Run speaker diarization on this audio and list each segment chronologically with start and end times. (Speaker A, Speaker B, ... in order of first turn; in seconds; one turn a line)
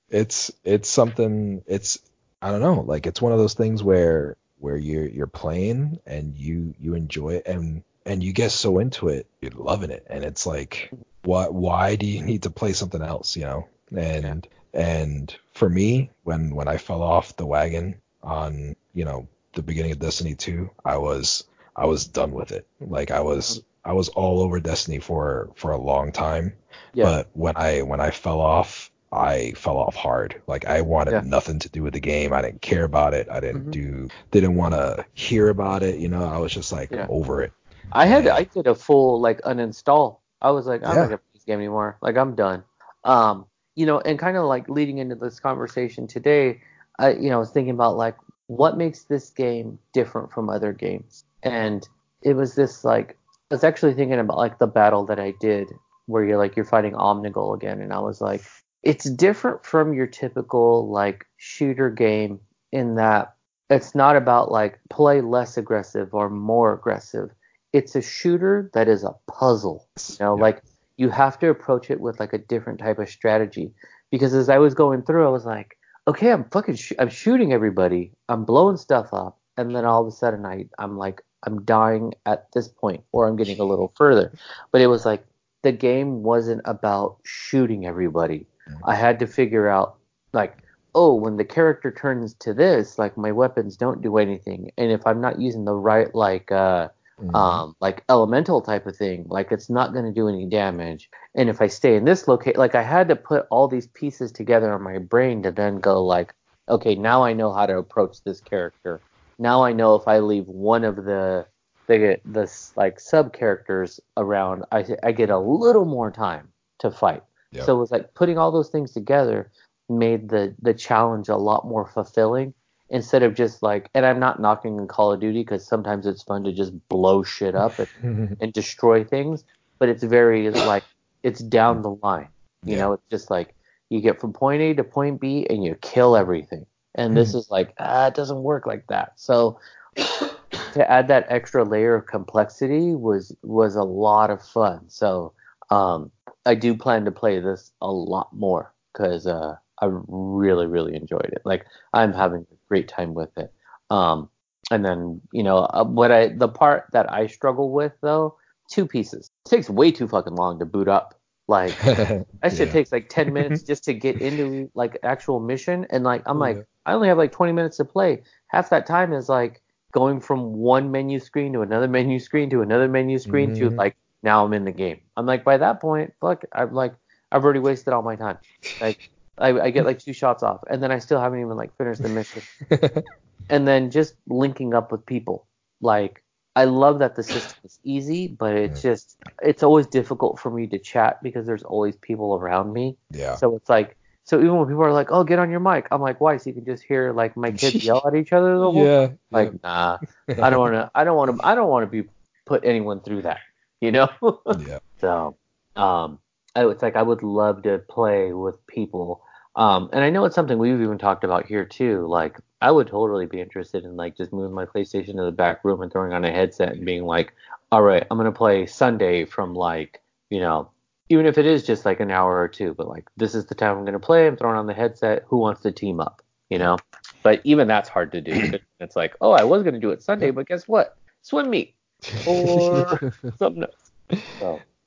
Speaker A: 0.1-38.4
Speaker B: 33.5-33.8
Speaker B: 37.9-139.6
Speaker A: 40.8-41.1
Speaker A: 70.0-70.5
Speaker A: 97.2-97.6
Speaker A: 127.9-128.4
Speaker A: 132.6-132.9
Speaker B: 140.7-161.8
Speaker A: 161.8-162.8
Speaker B: 162.4-182.4
Speaker A: 163.3-163.6
Speaker A: 166.3-166.6
Speaker A: 173.3-173.8
Speaker A: 178.7-179.0
Speaker A: 182.7-183.0
Speaker B: 183.5-233.7
Speaker A: 193.1-193.4
Speaker A: 197.5-197.9
Speaker A: 198.6-199.6
Speaker A: 200.3-200.7
Speaker A: 204.5-204.8
Speaker A: 232.1-232.5